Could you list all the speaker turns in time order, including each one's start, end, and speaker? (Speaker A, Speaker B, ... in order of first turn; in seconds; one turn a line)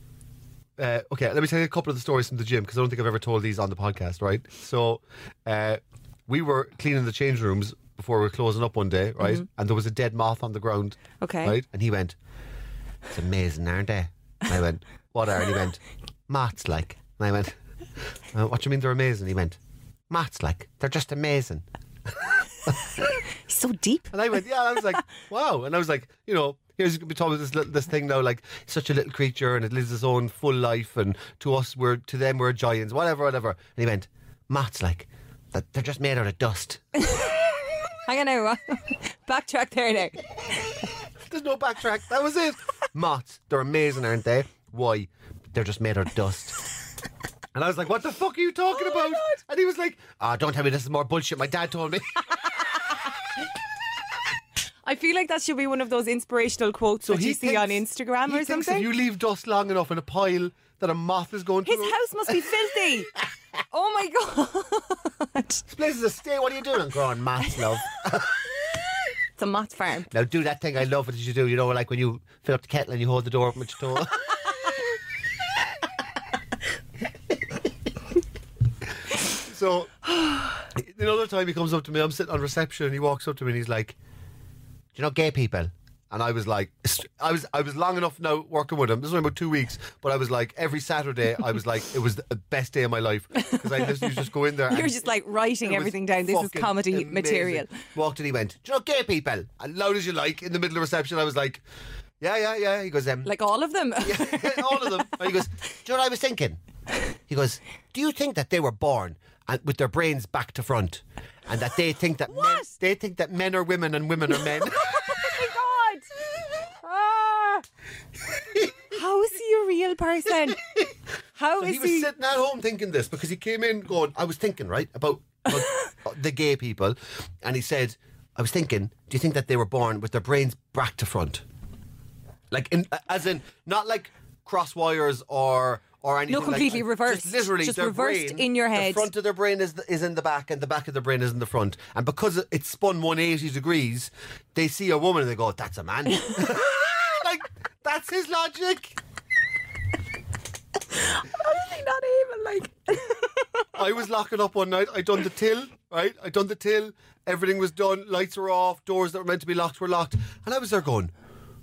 Speaker A: 0.8-12.2
Speaker B: 9.2-9.4
Speaker B: 11.2-11.5
Speaker A: 13.1-17.6
Speaker A: 18.3-19.6
Speaker A: 20.1-21.6
Speaker B: 23.3-24.1
Speaker A: 24.1-36.8
Speaker B: 37.0-37.4
Speaker B: 38.0-40.2
Speaker A: 41.3-46.6
Speaker A: 47.5-52.2
Speaker B: 48.7-49.3
Speaker B: 54.8-58.9
Speaker A: 57.0-62.6
Speaker B: 61.6-63.1
Speaker B: 63.7-65.6
Speaker A: 65.7-68.4
Speaker B: 69.4-70.1
Speaker A: 70.1-74.3
Speaker A: 79.3-79.9
Speaker A: 80.7-83.9
Speaker A: 84.9-101.6
Speaker B: 93.4-97.7
Speaker A: 102.2-103.3
Speaker B: 103.2-105.0
Speaker A: 104.0-106.6
Speaker A: 107.3-115.1
Speaker B: 112.3-112.7
Speaker B: 114.3-116.1
Speaker B: 116.8-117.6
Speaker A: 118.5-118.8
Speaker B: 118.9-120.6
Speaker B: 121.4-122.1
Speaker A: 121.6-131.4
Speaker A: 132.5-148.9
Speaker B: 136.3-139.1
Speaker B: 151.0-153.7
Speaker A: 153.7-161.1